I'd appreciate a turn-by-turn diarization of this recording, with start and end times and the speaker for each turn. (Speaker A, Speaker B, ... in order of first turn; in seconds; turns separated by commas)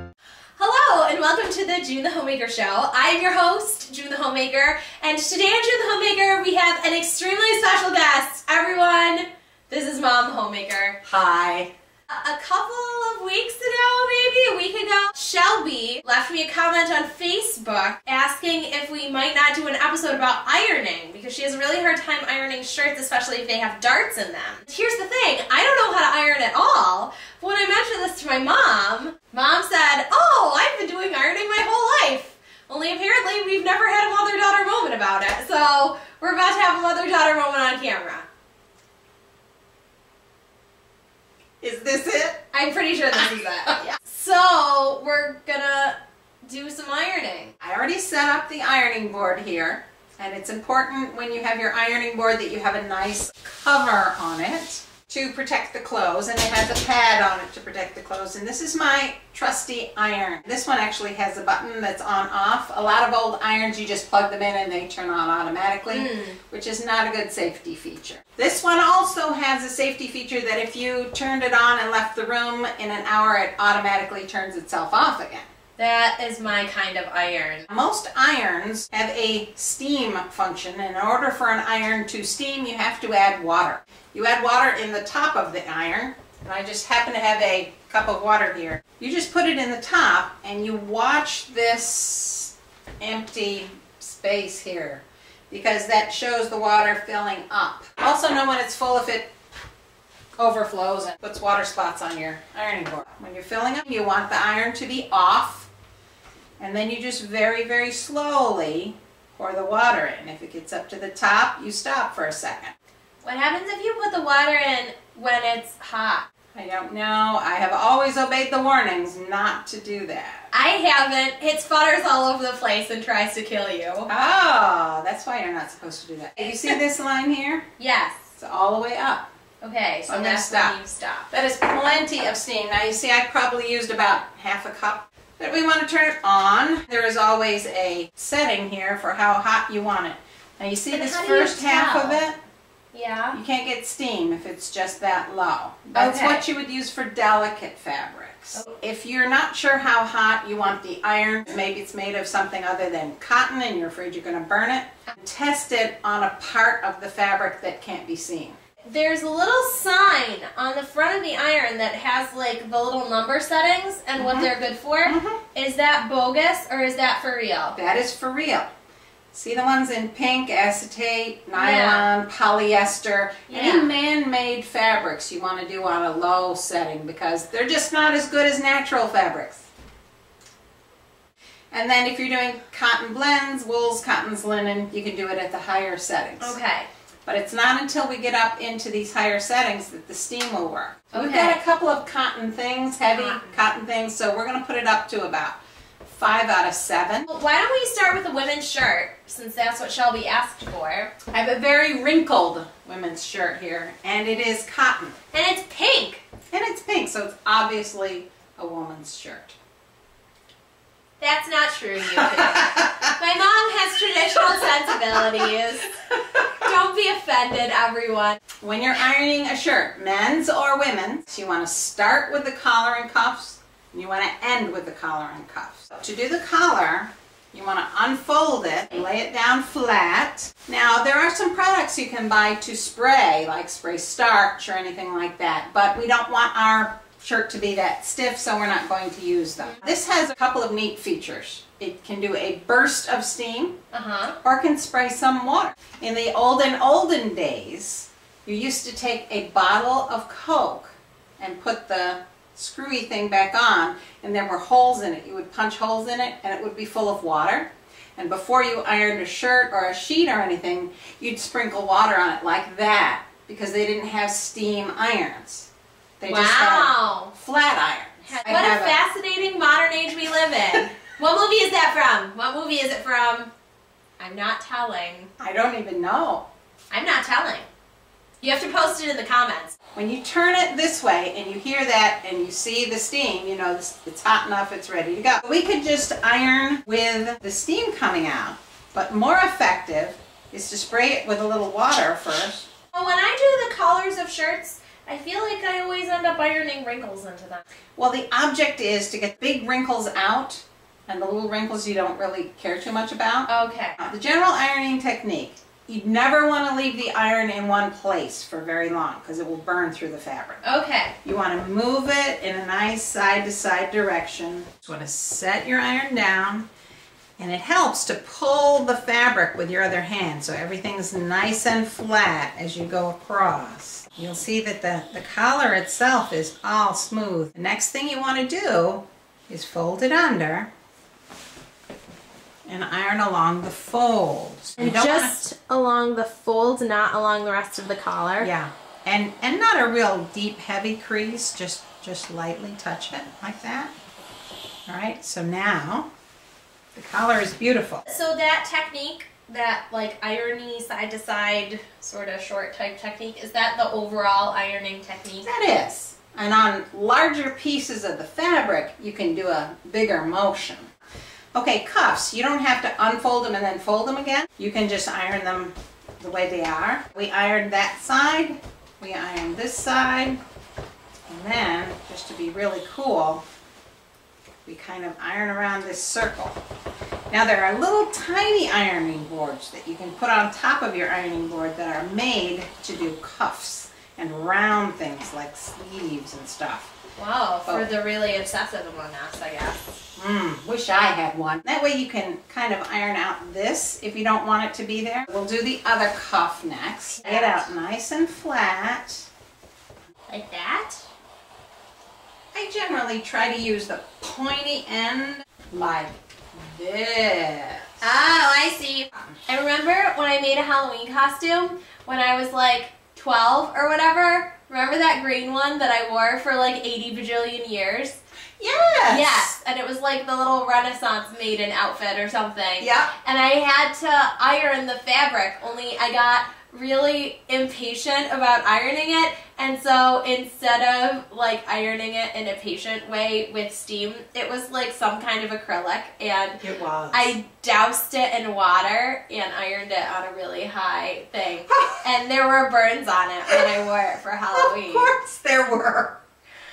Speaker A: 0.6-11.1, Speaker B: 11.1-11.7, Speaker A: 12.1-38.2, Speaker B: 41.6-42.4, Speaker A: 42.5-47.5, Speaker B: 47.6-75.4, Speaker A: 65.9-66.4, Speaker A: 75.8-77.7, Speaker B: 77.7-99.3, Speaker B: 100.4-105.7, Speaker B: 106.6-112.7, Speaker A: 113.2-116.3, Speaker B: 116.5-120.5, Speaker A: 120.5-124.1, Speaker B: 124.1-127.7, Speaker A: 127.8-128.2, Speaker B: 128.4-129.3, Speaker A: 129.6-131.3, Speaker B: 130.1-130.8, Speaker B: 131.3-142.4, Speaker A: 140.9-142.2, Speaker A: 142.9-143.4, Speaker B: 143.3-158.6, Speaker A: 145.9-146.4, Speaker A: 158.9-167.8, Speaker B: 164.2-164.5, Speaker B: 165.1-165.4, Speaker B: 167.8-168.7, Speaker B: 169.3-179.7, Speaker A: 171.6-172.1, Speaker A: 173.5-173.9, Speaker B: 181.7-186.6, Speaker A: 186.4-186.9, Speaker B: 187.2-197.3, Speaker A: 191.1-191.6, Speaker A: 193.1-193.6, Speaker A: 197.3-201.2, Speaker B: 201.3-205.2, Speaker A: 205.3-206.2, Speaker B: 206.5-209.5, Speaker A: 211.2-218.4, Speaker B: 212.1-213.0, Speaker B: 218.6-243.8, Speaker A: 243.9-244.4, Speaker B: 244.4-265.7, Speaker B: 266.2-269.0, Speaker A: 266.2-267.3, Speaker A: 268.3-273.5, Speaker A: 274.2-275.3, Speaker B: 275.4-276.4, Speaker A: 276.9-277.7, Speaker A: 278.4-279.7, Speaker B: 279.9-292.7, Speaker A: 292.9-297.6, Speaker B: 298.0-310.6, Speaker A: 303.5-304.0, Speaker A: 310.6-311.1, Speaker B: 311.2-316.7, Speaker B: 317.4-330.7, Speaker B: 332.6-335.3, Speaker A: 334.8-338.5, Speaker B: 338.4-343.9, Speaker B: 344.9-346.1, Speaker B: 346.9-348.0, Speaker A: 348.1-355.5, Speaker B: 355.4-360.9, Speaker B: 361.5-370.4, Speaker B: 371.3-373.4, Speaker B: 374.6-376.6, Speaker B: 377.3-386.9, Speaker A: 387.2-390.0, Speaker B: 390.1-399.3, Speaker A: 397.2-397.7, Speaker A: 400.3-401.0, Speaker B: 402.5-408.0, Speaker A: 408.0-418.2, Speaker B: 418.6-419.5, Speaker A: 419.1-445.1, Speaker B: 422.8-423.1, Speaker B: 436.6-437.3, Speaker B: 441.7-442.0, Speaker B: 444.5-446.2